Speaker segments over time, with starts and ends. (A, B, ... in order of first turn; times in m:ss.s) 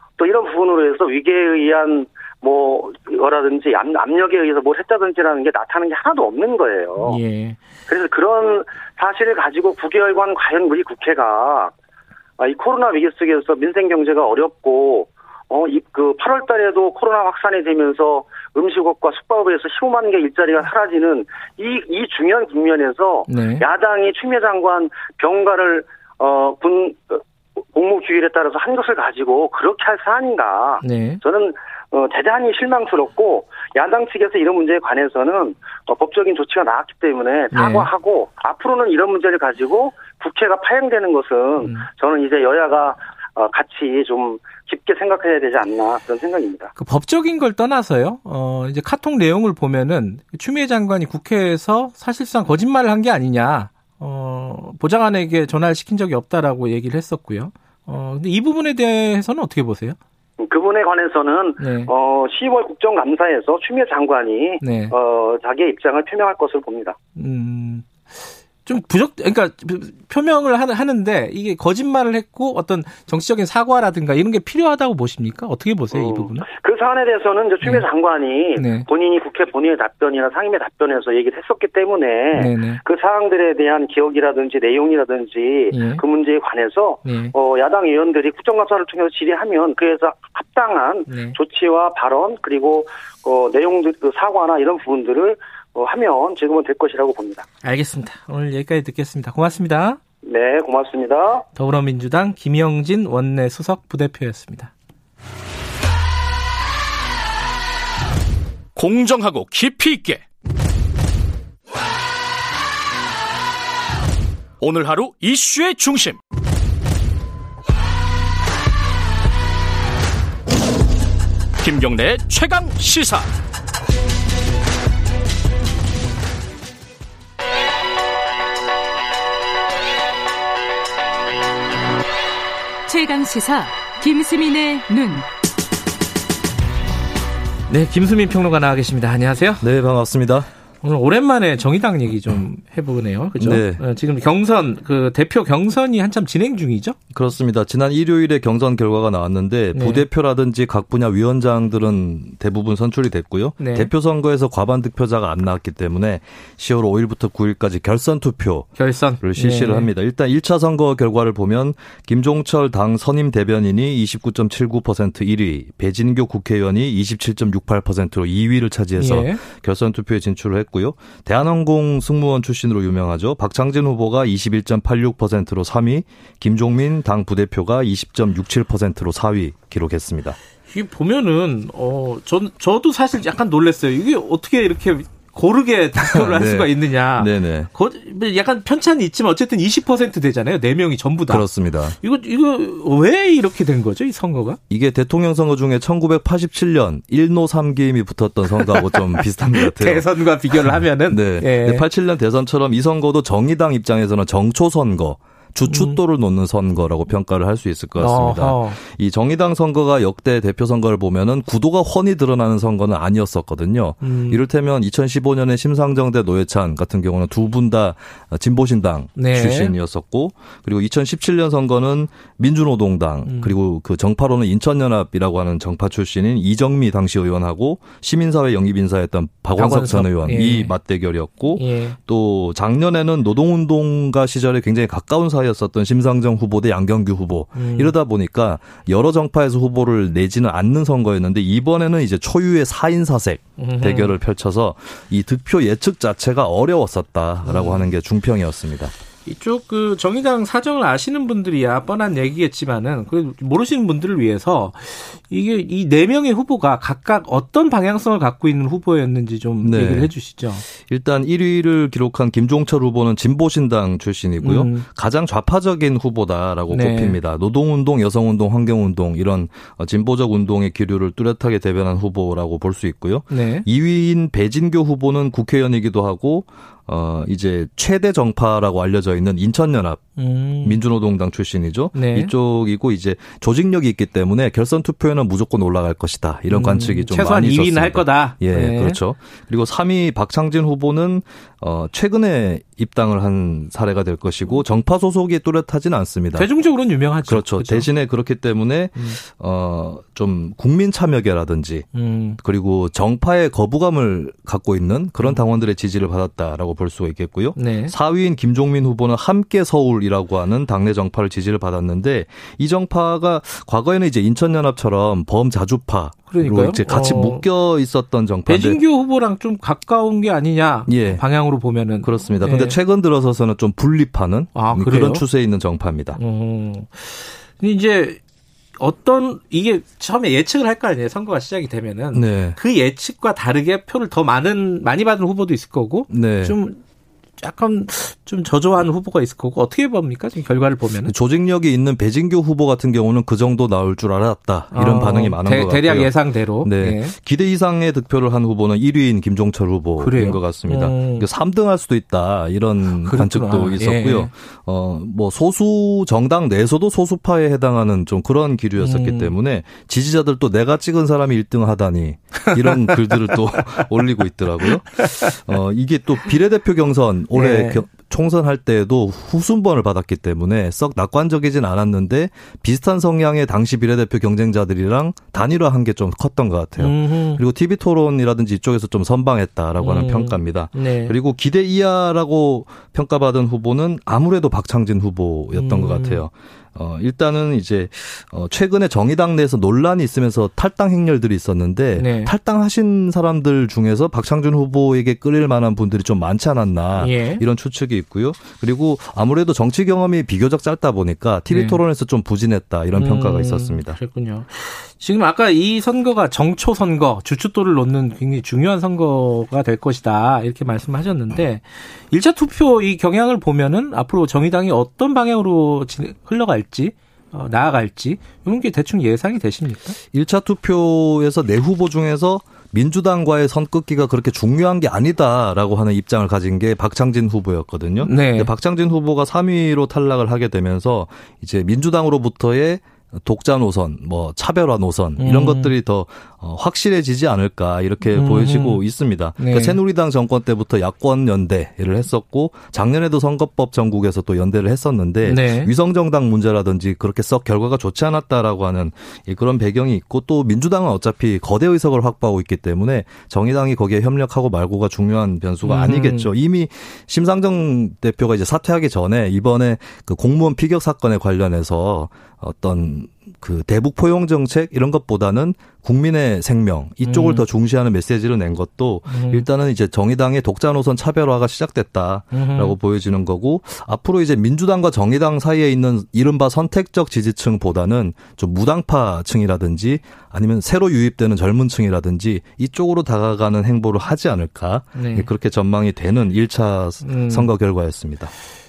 0:00.2-0:07.2 A
0:07.0-0:07.6 B
0:07.9-0:11.7 A
0:12.4-0:27.2 A
0:23.3-0:23.6 B
0:27.7-0:46.7 A
0:30.8-0:31.2 B
0:37.5-0:37.9 B
0:46.8-1:00.0 B
1:00.4-1:07.0 A
1:01.6-1:01.9 B
1:04.6-1:04.9 B
1:07.2-1:16.5 B
1:15.9-1:37.4 A
1:18.6-1:18.9 B
1:22.3-1:22.8 B
1:25.7-1:26.0 B
1:27.0-1:27.3 B
1:31.1-1:31.4 B
1:37.6-1:40.0 B
1:40.2-1:41.4 A
1:41.5-1:44.7 B
1:48.7-1:50.2 C
1:54.6-1:56.2 C
2:01.6-2:03.3 C
2:12.9-2:15.2 D
2:17.7-2:19.6 B
2:19.6-2:20.5 E
2:20.8-2:27.0 B
2:23.4-2:23.8 E
2:27.1-3:00.4 E
2:29.7-2:30.0 B
2:33.6-2:33.9 B
2:38.8-2:39.9 B
2:49.0-2:49.4 B
3:00.7-3:11.4 B
3:06.0-3:07.7 E
3:11.3-3:12.0 E
3:12.0-3:14.6 B
3:14.7-3:20.1 E
3:18.8-3:21.8 B
3:20.6-4:08.9 E
3:25.7-3:26.0 B
3:28.0-3:28.8 B
3:34.0-3:34.4 B
3:39.2-3:39.7 B
3:43.2-3:43.5 B
3:49.6-3:50.7 B
3:51.5-3:52.0 B
3:57.6-3:57.9 B
4:03.6-4:04.2 B
4:07.4-4:07.9 B
4:09.2-4:20.6 B
4:19.6-4:20.1 E
4:20.7-4:56.5 E
4:24.4-4:24.8 B
4:26.7-4:27.2 B
4:33.3-4:33.6 B
4:40.2-4:40.8 B
4:41.9-4:42.3 B
4:46.5-4:49.0 B
4:56.4-4:57.9 B
4:57.2-5:18.8 E
5:01.9-5:02.4 B
5:07.5-5:07.9 B
5:16.3-5:17.4 B
5:18.5-5:22.8 B
5:20.9-5:21.3 E
5:22.0-5:26.2 E
5:24.5-5:25.2 B
5:26.1-5:28.2 B
5:28.8-5:36.8 B
5:32.1-5:32.6 E
5:36.1-5:36.6 E
5:37.4-5:41.1 B
5:41.0-6:44.0 E
5:44.7-5:47.1 B
5:50.0-5:51.3 B
5:53.0-5:54.3 B
5:58.8-5:59.3 B
6:02.6-6:02.9 B
6:07.3-6:07.8 B
6:16.8-6:17.4 B
6:19.8-6:21.1 B
6:25.6-6:26.2 B
6:31.9-6:32.3 B
6:37.0-6:37.4 B
6:41.5-6:41.8 B
6:42.9-7:00.0 B
7:00.1-8:08.3 E
7:08.0-7:08.5 B
7:15.2-7:15.7 B
7:18.1-7:18.8 B
7:19.4-7:19.8 B
7:25.2-7:25.7 B
7:35.6-7:36.3 B
7:47.0-7:47.4 B
7:49.1-7:49.4 B
7:52.3-7:52.7 B
8:04.9-8:05.3 B
8:07.0-8:07.5 B